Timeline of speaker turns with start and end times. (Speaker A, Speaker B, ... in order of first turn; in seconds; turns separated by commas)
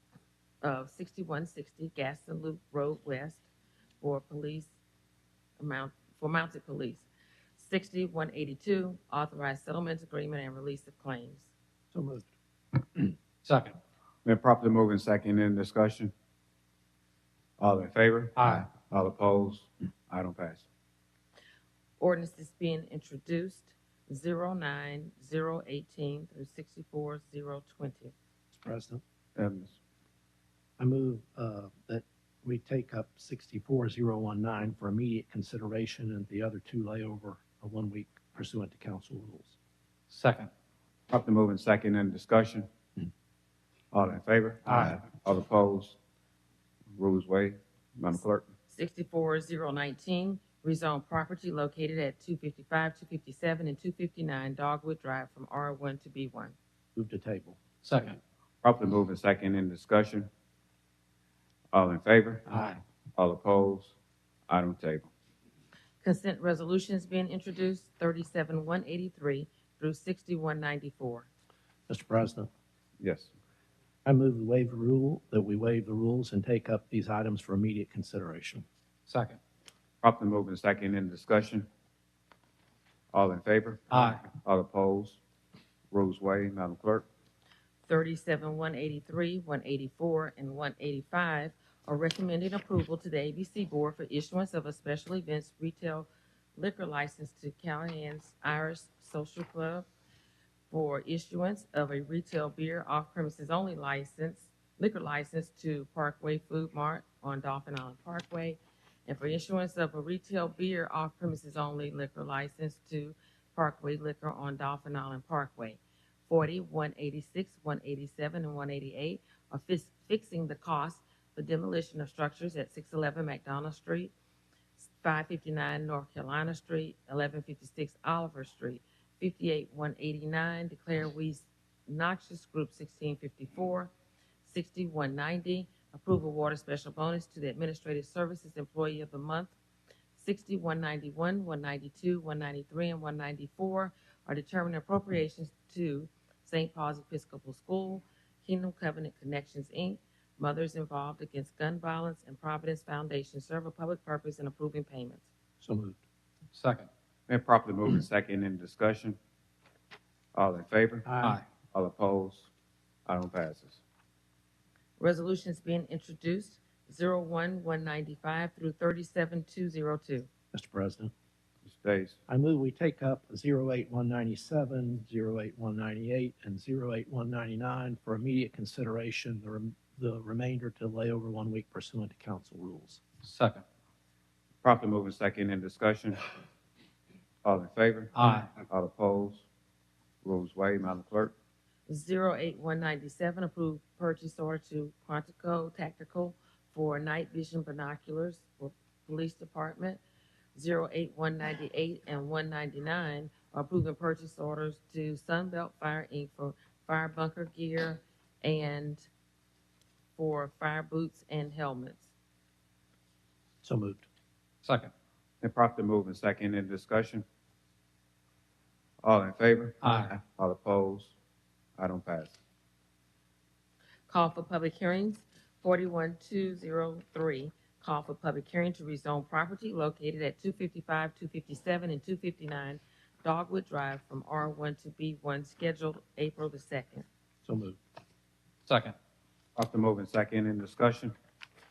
Speaker A: 0.6-3.4, Speaker A: 4.0-4.7, Speaker A: 5.6-11.5, Speaker B: 11.9-12.3, Speaker C: 13.4-13.8, Speaker D: 14.2-16.1, Speaker D: 17.6-20.6, Speaker C: 18.4-18.7, Speaker A: 22.0-28.1, Speaker B: 28.5-29.0, Speaker D: 29.4-29.8, Speaker B: 30.8-39.5, Speaker C: 40.1-40.5, Speaker D: 41.1-42.7, Speaker D: 43.9-46.0, Speaker C: 44.7-45.0, Speaker D: 46.9-48.5, Speaker A: 48.7-56.5, Speaker B: 57.0-57.6, Speaker C: 57.8-58.2, Speaker D: 58.6-60.3, Speaker D: 61.7-62.5, Speaker C: 62.5-62.8, Speaker D: 63.2-63.9, Speaker D: 64.5-65.1, Speaker A: 66.0-71.3, Speaker B: 71.9-72.5, Speaker D: 73.0-73.3, Speaker B: 74.0-78.6, Speaker C: 79.1-79.4, Speaker D: 80.0-81.7, Speaker D: 83.1-85.2, Speaker C: 83.9-84.2, Speaker D: 85.9-87.0, Speaker A: 87.8-99.9, Speaker A: 100.7-124.1, Speaker A: 124.8-133.9, Speaker A: 134.4-139.5, Speaker A: 140.1-155.3, Speaker B: 155.6-156.0, Speaker C: 156.5-156.9, Speaker D: 157.3-159.2, Speaker D: 160.3-161.1, Speaker B: 161.1-161.4, Speaker D: 161.7-162.5, Speaker D: 163.1-163.8, Speaker A: 165.0-170.3, Speaker B: 170.5-171.1, Speaker D: 171.6-172.2, Speaker B: 172.3-183.0, Speaker C: 183.2-183.6, Speaker D: 184.6-186.3, Speaker D: 187.4-189.4, Speaker C: 188.1-188.5, Speaker D: 190.2-191.3, Speaker A: 191.9-200.0, Speaker A: 200.5-209.1, Speaker A: 210.2-212.1, Speaker B: 213.6-214.0, Speaker C: 214.6-214.9, Speaker D: 215.4-217.2, Speaker D: 219.0-221.1, Speaker C: 219.8-220.1, Speaker D: 221.8-222.4, Speaker A: 224.1-237.1, Speaker B: 237.4-237.8, Speaker C: 238.7-238.9, Speaker D: 239.6-241.1